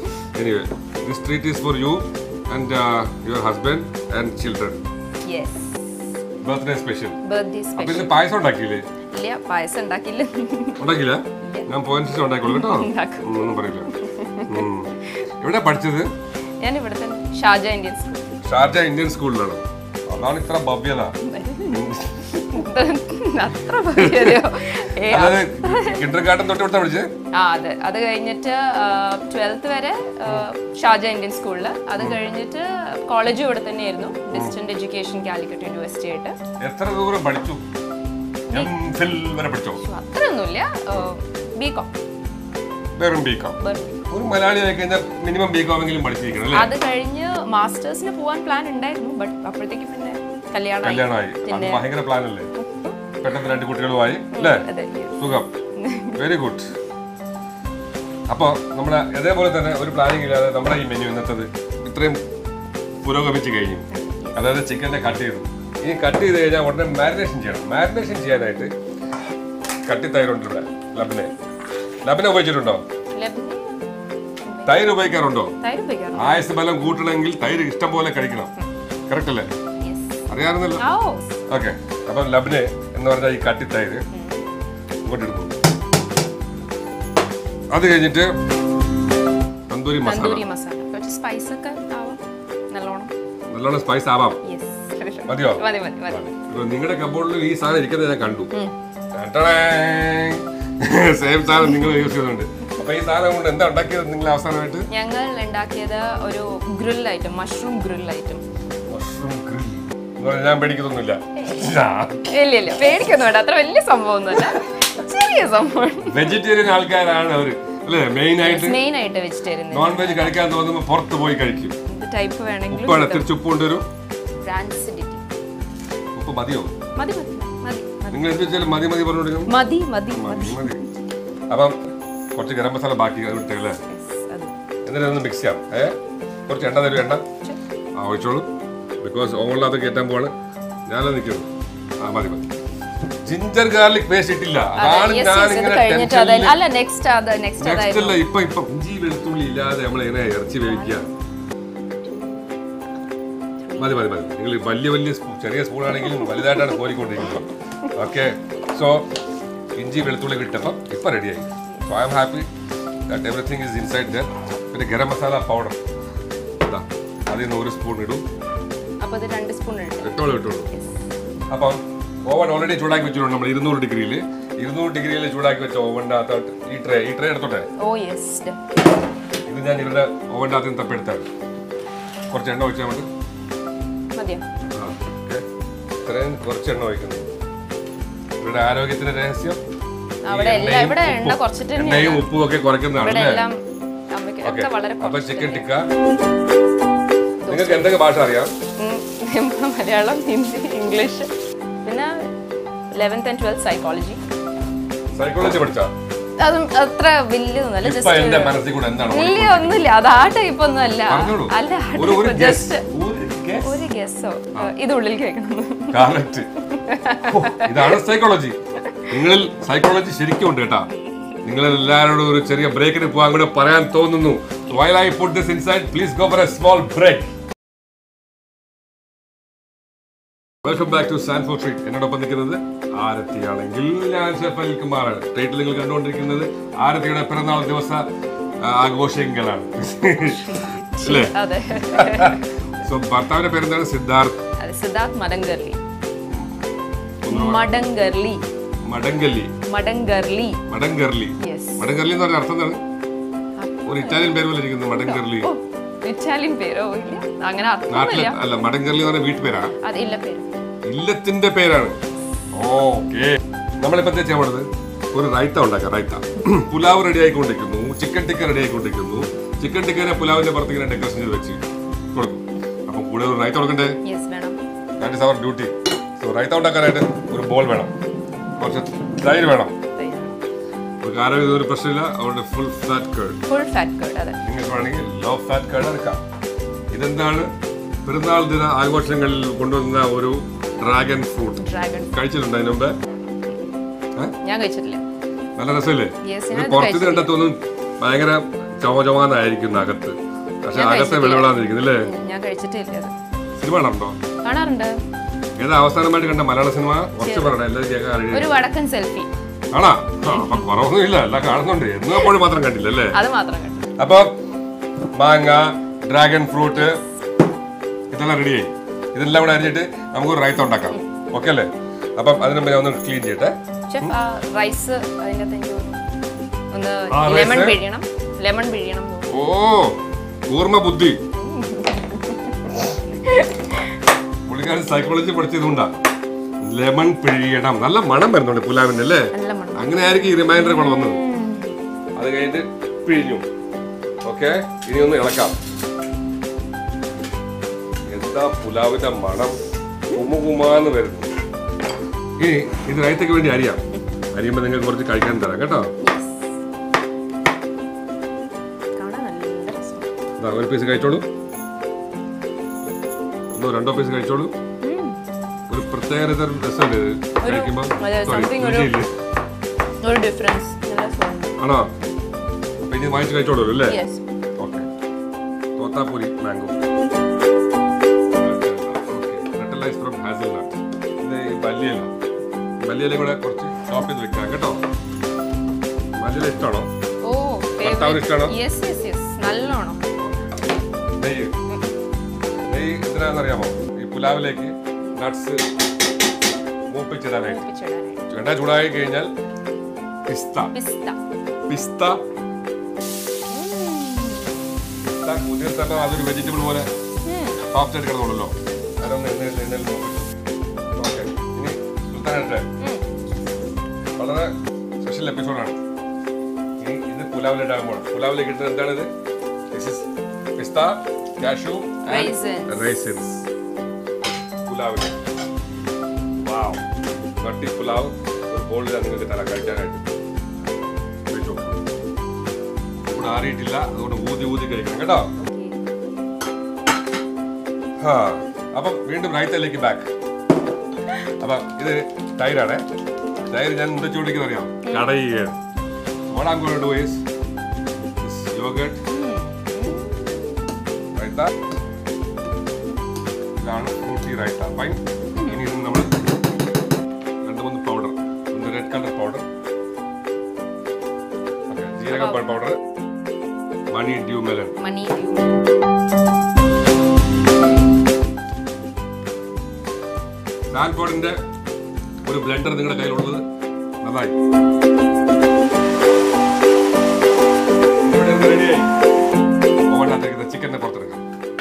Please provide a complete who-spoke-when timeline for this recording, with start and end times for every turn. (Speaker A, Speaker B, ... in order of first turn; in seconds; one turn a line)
Speaker A: 0.3-4.8
Speaker B: 5.2-6.0
Speaker A: 6.4-7.2
Speaker B: 7.2-8.1
Speaker A: 7.8-8.8
Speaker B: 9.1-10.8
Speaker A: 10.8-13.9
Speaker B: 11.4-11.7
Speaker B: 12.4-15.2
Speaker A: 14.4-16.1
Speaker B: 16.6-18.4
Speaker A: 18.4-21.1
Speaker B: 21.2-26.0
Speaker A: 21.7-22.4
Speaker A: 24.0-24.4
Speaker A: 25.1-27.1
Speaker B: 27.3-36.4
Speaker A: 36.6-37.6
Speaker A: 38.5-39.8
Speaker B: 39.8-41.9
Speaker A: 43.0-43.6
Speaker B: 43.6-44.0
Speaker A: 44.1-46.7
Speaker B: 46.5-51.9
Speaker A: 50.8-52.5
Speaker B: 52.6-53.0
Speaker A: 53.2-55.5
Speaker B: 54.3-55.2
Speaker B: 55.8-56.2
Speaker A: 56.2-56.7
Speaker A: 58.3-62.2
Speaker A: 63.0-68.7
Speaker B: 63.9-64.5
Speaker A: 69.8-71.3
Speaker A: 72.0-72.8
Speaker B: 73.1-73.8
Speaker B: 74.4-74.9
Speaker A: 74.7-75.5
Speaker B: 75.6-76.4
Speaker A: 76.1-78.5
Speaker A: 79.1-79.5
Speaker B: 79.8-81.4
Speaker A: 80.3-80.8
Speaker A: 81.5-84.0
Speaker B: 84.1-84.4
Speaker A: 85.0-85.5
Speaker A: 87.7-88.3
Speaker A: 89.7-90.5
Speaker B: 90.0-93.1
Speaker A: 93.5-94.4
Speaker B: 94.4-96.2
Speaker A: 95.3-98.5
Speaker A: 99.1-104.9
Speaker B: 104.9-108.4
Speaker A: 108.9-112.2
Speaker B: 112.3-116.3
Speaker A: 116.0-118.8
Speaker B: 118.4-120.4
Speaker A: 119.7-121.8
Speaker B: 121.9-123.3
Speaker A: 122.7-123.9
Speaker B: 124.4-125.2
Speaker A: 126.1-126.7
Speaker B: 127.0-128.4
Speaker A: 128.1-129.5
Speaker B: 129.5-130.9
Speaker A: 130.1-130.8
Speaker A: 131.5-133.8
Speaker B: 133.9-134.6
Speaker A: 134.8-135.9
Speaker A: 136.5-137.2
Speaker A: 138.0-138.5
Speaker A: 139.0-140.3
Speaker A: 140.9-141.5
Speaker A: 142.0-142.5
Speaker A: 143.2-146.6
Speaker B: 144.8-148.2
Speaker A: 147.6-151.1
Speaker B: 150.6-151.1
Speaker B: 152.0-152.6
Speaker B: 153.6-154.1
Speaker A: 153.8-159.1
Speaker B: 156.2-156.8
Speaker A: 159.8-162.5
Speaker A: 163.1-165.8
Speaker A: 166.6-168.2
Speaker B: 169.0-170.9
Speaker A: 170.0-170.7
Speaker A: 171.5-177.7
Speaker B: 177.8-178.9
Speaker A: 179.5-181.2
Speaker A: 182.3-183.1
Speaker B: 184.2-184.4
Speaker A: 184.7-185.4
Speaker A: 186.0-187.3
Speaker A: 188.4-189.6
Speaker B: 190.2-192.3
Speaker A: 190.3-193.5
Speaker B: 193.0-193.6
Speaker B: 194.1-195.7
Speaker A: 194.4-195.9
Speaker B: 197.4-197.9
Speaker A: 197.5-198.5
Speaker B: 198.8-201.3
Speaker B: 201.8-202.3
Speaker B: 202.9-204.2
Speaker A: 205.1-205.9
Speaker B: 206.4-212.8
Speaker A: 207.8-209.8
Speaker A: 211.1-213.8
Speaker B: 213.6-216.0
Speaker A: 215.9-216.5
Speaker B: 216.6-218.0
Speaker A: 217.2-218.6
Speaker A: 219.1-220.9
Speaker A: 221.4-227.3
Speaker A: 230.6-238.0
Speaker A: 238.6-244.4
Speaker B: 240.2-242.4
Speaker B: 244.6-245.8
Speaker A: 247.2-247.7
Speaker B: 247.3-248.4
Speaker A: 248.8-249.5
Speaker B: 249.7-250.6
Speaker A: 250.7-252.8
Speaker B: 251.4-251.9
Speaker B: 253.6-254.4
Speaker A: 253.8-255.5
Speaker B: 254.9-258.4
Speaker A: 257.9-259.7
Speaker B: 259.8-260.5
Speaker A: 260.8-262.0
Speaker A: 262.5-274.0
Speaker B: 274.0-274.6
Speaker A: 275.0-277.9
Speaker A: 278.6-279.8
Speaker B: 279.9-280.4
Speaker A: 281.0-283.4
Speaker B: 283.5-284.4
Speaker A: 284.4-286.2
Speaker A: 286.9-287.5
Speaker A: 288.0-292.9
Speaker B: 291.6-292.2
Speaker B: 294.4-295.0
Speaker A: 295.6-302.1
Speaker B: 296.2-297.4
Speaker B: 300.7-303.1
Speaker A: 303.6-304.2
Speaker B: 304.4-304.9
Speaker A: 305.6-308.5
Speaker B: 307.2-307.6
Speaker B: 308.3-309.3
Speaker A: 309.7-313.2
Speaker B: 313.1-313.9
Speaker A: 314.0-314.3
Speaker A: 315.1-317.0
Speaker A: 318.1-324.2
Speaker B: 323.9-326.0
Speaker B: 326.7-329.4
Speaker A: 327.1-327.8
Speaker A: 329.3-331.2
Speaker B: 331.4-333.9
Speaker A: 334.5-336.0
Speaker A: 336.6-341.2
Speaker B: 339.3-341.7
Speaker A: 342.1-343.4
Speaker A: 344.2-345.6
Speaker A: 348.1-349.6
Speaker A: 350.1-351.3
Speaker A: 352.4-353.8
Speaker A: 354.3-355.9
Speaker B: 356.0-356.5
Speaker B: 359.0-360.1
Speaker A: 360.4-361.2
Speaker A: 363.5-364.5
Speaker B: 364.8-365.2
Speaker A: 365.7-369.1
Speaker B: 367.4-369.0
Speaker B: 370.0-371.6
Speaker A: 371.6-371.9
Speaker A: 372.8-374.0
Speaker B: 373.8-374.2
Speaker A: 374.6-374.9
Speaker A: 375.8-376.8
Speaker A: 378.4-382.1
Speaker A: 382.8-384.8
Speaker A: 386.2-386.9
Speaker B: 387.2-390.0
Speaker A: 387.8-388.6
Speaker A: 390.2-390.6
Speaker A: 391.1-391.5
Speaker B: 391.7-391.9
Speaker A: 392.7-395.6
Speaker A: 396.9-397.6
Speaker B: 397.4-398.2
Speaker A: 398.3-399.3
Speaker A: 400.2-400.7
Speaker B: 400.7-401.2
Speaker A: 401.7-402.2
Speaker B: 403.5-404.6
Speaker A: 405.0-406.9
Speaker B: 407.2-407.6
Speaker A: 407.7-410.3
Speaker A: 411.0-412.6
Speaker B: 412.8-413.0
Speaker A: 414.2-415.8
Speaker A: 416.8-419.1
Speaker A: 419.7-423.4
Speaker B: 422.1-422.9
Speaker A: 424.6-425.2
Speaker A: 426.4-426.8
Speaker A: 427.4-430.1
Speaker A: 431.3-431.8
Speaker A: 433.1-435.3
Speaker B: 435.4-435.8
Speaker A: 438.0-440.1
Speaker A: 441.4-442.8
Speaker A: 443.5-445.6
Speaker A: 446.3-447.2
Speaker A: 448.2-449.0
Speaker B: 449.1-450.9
Speaker A: 451.1-451.5
Speaker A: 453.6-456.2
Speaker B: 455.4-455.6
Speaker A: 457.4-459.5
Speaker A: 461.7-462.8
Speaker B: 462.1-462.6
Speaker A: 463.9-464.8
Speaker B: 464.8-465.6
Speaker A: 470.7-471.4
Speaker A: 472.2-473.4
Speaker A: 474.0-474.4
Speaker A: 478.0-478.9
Speaker A: 479.9-481.2